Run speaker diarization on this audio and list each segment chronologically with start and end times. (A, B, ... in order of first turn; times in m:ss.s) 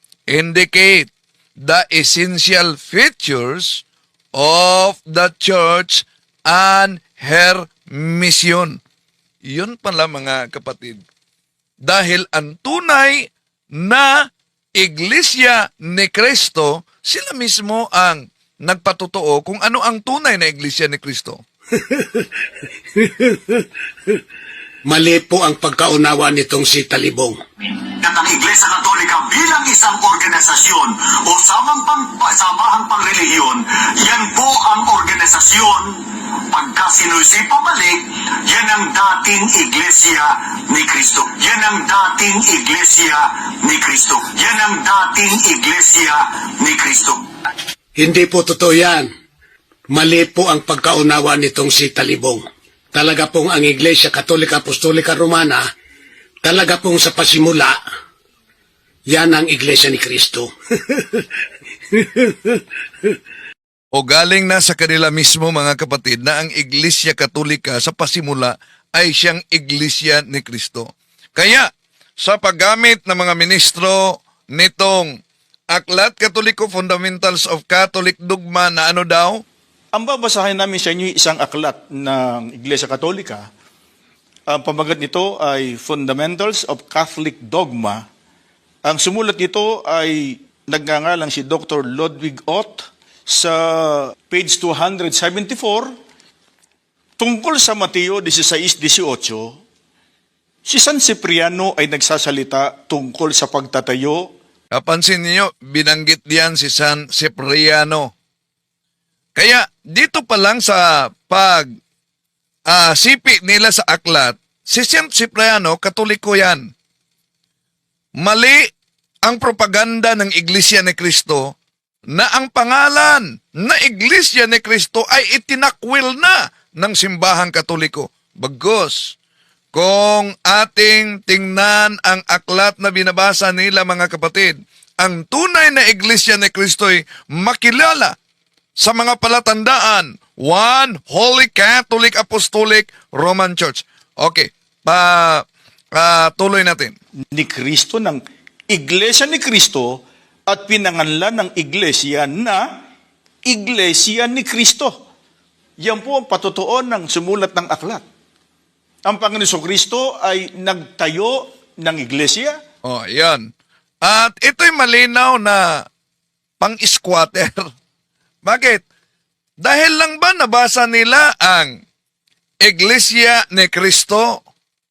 0:00.3-0:08.8 A
0:09.4-0:11.0 A
0:11.8-0:21.4 A
0:24.8-0:27.4 B
0:28.0-0:47.2 C
0:48.0-0:49.1 B
0:49.9-0:55.6 B
0:56.4-0:57.8 B
0:59.1-1:00.5 B
1:02.0-1:02.5 B
1:03.9-1:11.7 A
1:12.2-1:15.1 A
1:15.7-1:19.4 A
1:19.9-1:23.4 D
1:24.5-1:28.0 D
1:28.8-1:35.9 D
1:37.2-1:39.5 D
1:40.7-1:44.2 D
1:44.7-1:48.1 A
1:49.4-1:51.7 A
1:52.7-1:56.7 A
1:58.2-1:58.6 A
1:59.2-2:01.5 A
2:02.1-2:09.2 A
2:09.7-2:18.2 A
2:18.8-2:25.4 A
2:26.0-2:26.9 A
2:27.3-2:30.0 D
2:30.5-2:32.6 D
2:33.5-2:34.9 D
2:35.8-2:38.0 D
2:39.0-2:42.6 D
2:42.8-2:43.4 A
2:44.0-2:45.9 A
2:46.6-2:47.6 A
2:48.4-2:48.8 A
2:49.6-2:51.7 A
2:52.6-2:54.4 A